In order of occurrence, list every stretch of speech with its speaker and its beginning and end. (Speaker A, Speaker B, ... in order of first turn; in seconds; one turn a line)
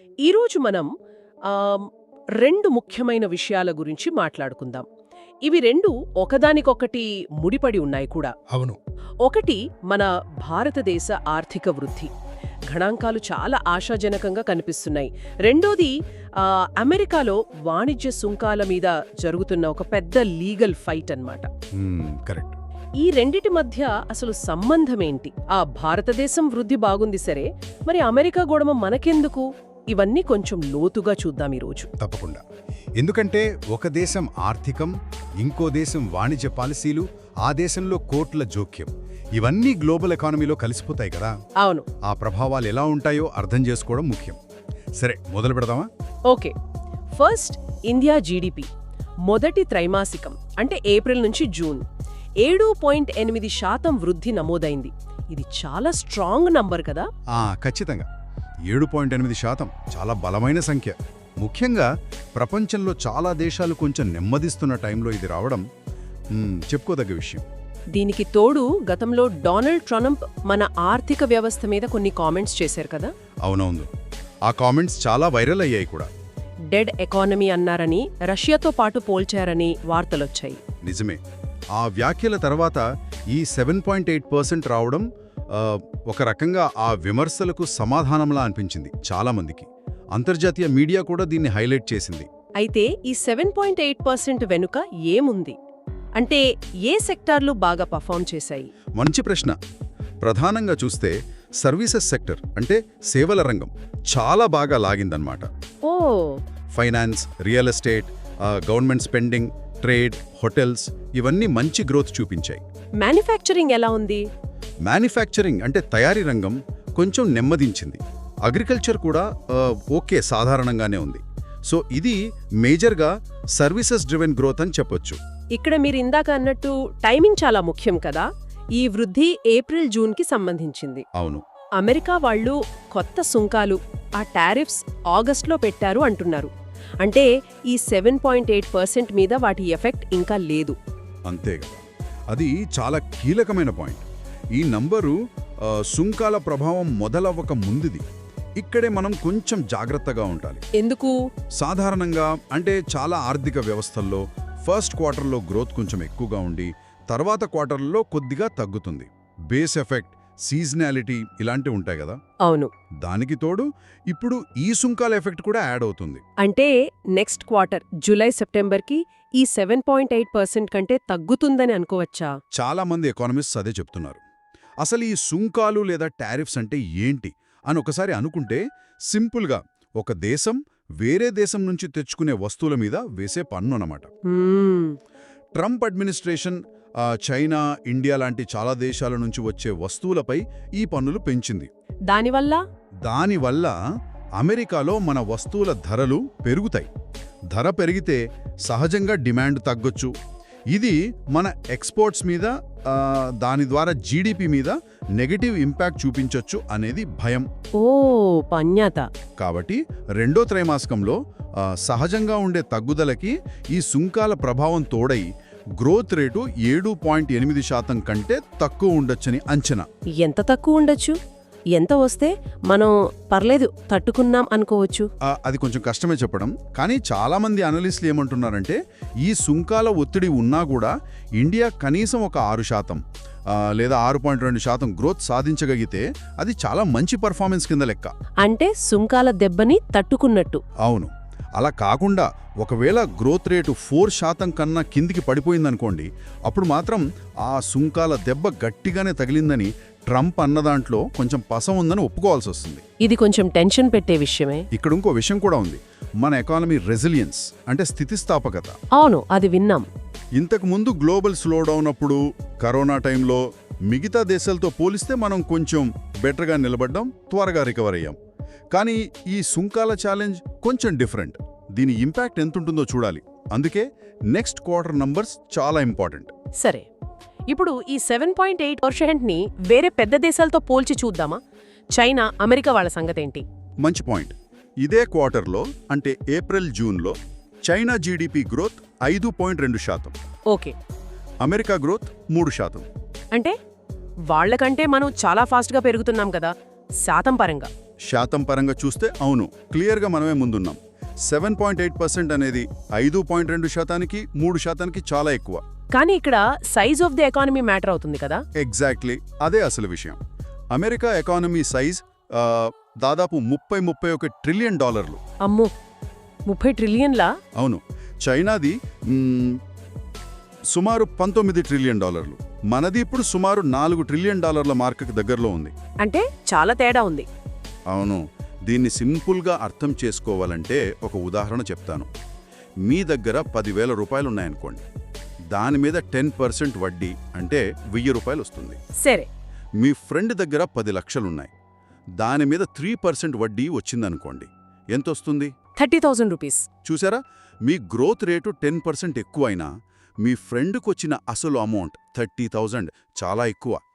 Speaker A: 0.2-0.9
Speaker A: 1.5-1.9
Speaker A: 2.4-4.8
Speaker A: 5.5-8.3
Speaker B: 8.5-8.8
Speaker A: 9.2-12.1
Speaker A: 12.7-21.5
Speaker B: 21.8-22.6
Speaker A: 23.0-31.9
Speaker B: 32.0-32.4
Speaker B: 33.0-41.3
Speaker A: 41.6-41.9
Speaker B: 42.0-44.4
Speaker B: 45.0-45.9
Speaker A: 46.3-46.5
Speaker A: 47.1-48.7
Speaker A: 49.2-51.8
Speaker A: 52.4-57.1
Speaker B: 57.3-58.1
Speaker B: 58.7-65.6
Speaker B: 66.3-67.5
Speaker A: 67.9-73.1
Speaker B: 73.4-73.9
Speaker B: 74.5-76.1
Speaker A: 76.7-80.6
Speaker B: 80.8-81.2
Speaker B: 81.7-92.3
Speaker A: 92.6-95.5
Speaker A: 96.2-98.7
Speaker B: 99.0-99.6
Speaker B: 100.2-105.5
Speaker A: 105.8-106.4
Speaker B: 106.7-112.6
Speaker A: 113.0-114.2
Speaker B: 114.8-125.2
Speaker A: 125.5-131.0
Speaker B: 131.2-131.4
Speaker A: 131.8-136.5
Speaker A: 137.0-140.8
Speaker B: 141.3-144.0
Speaker B: 144.5-148.0
Speaker B: 148.6-150.6
Speaker A: 150.8-151.2
Speaker B: 151.6-162.2
Speaker A: 162.4-162.7
Speaker B: 163.0-166.2
Speaker A: 166.4-172.3
Speaker B: 172.5-174.2
Speaker B: 174.8-184.1
Speaker A: 184.3-185.0
Speaker B: 185.6-191.7
Speaker A: 192.1-192.6
Speaker B: 193.0-193.8
Speaker B: 194.4-196.9
Speaker B: 197.5-200.1
Speaker B: 200.7-207.5
Speaker A: 207.8-209.0
Speaker B: 209.4-219.8
Speaker A: 220.2-221.2
Speaker A: 221.7-225.1
Speaker B: 225.2-238.1
Speaker A: 238.4-240.6
Speaker B: 240.8-252.8
Speaker A: 253.0-254.6
Speaker B: 254.7-258.7
Speaker A: 258.9-259.9
Speaker B: 260.4-268.1
Speaker B: 268.7-276.3
Speaker A: 276.6-276.9
Speaker A: 277.5-281.4
Speaker A: 281.9-283.4
Speaker B: 283.8-287.1
Speaker B: 287.7-290.1
Speaker B: 291.4-292.9
Speaker A: 294.3-297.7
Speaker B: 298.1-305.6
Speaker A: 305.9-308.4
Speaker B: 308.6-310.2
Speaker B: 310.7-315.2
Speaker A: 315.4-315.7
Speaker A: 316.5-317.3
Speaker B: 317.6-319.6
Speaker B: 320.7-325.7
Speaker A: 326.0-327.3
Speaker B: 327.9-332.1
Speaker B: 332.8-334.8
Speaker B: 335.5-338.8
Speaker A: 339.0-339.3
Speaker B: 339.8-341.5
Speaker B: 342.2-345.5
Speaker A: 345.8-346.7
Speaker B: 346.8-349.7
Speaker B: 350.2-353.8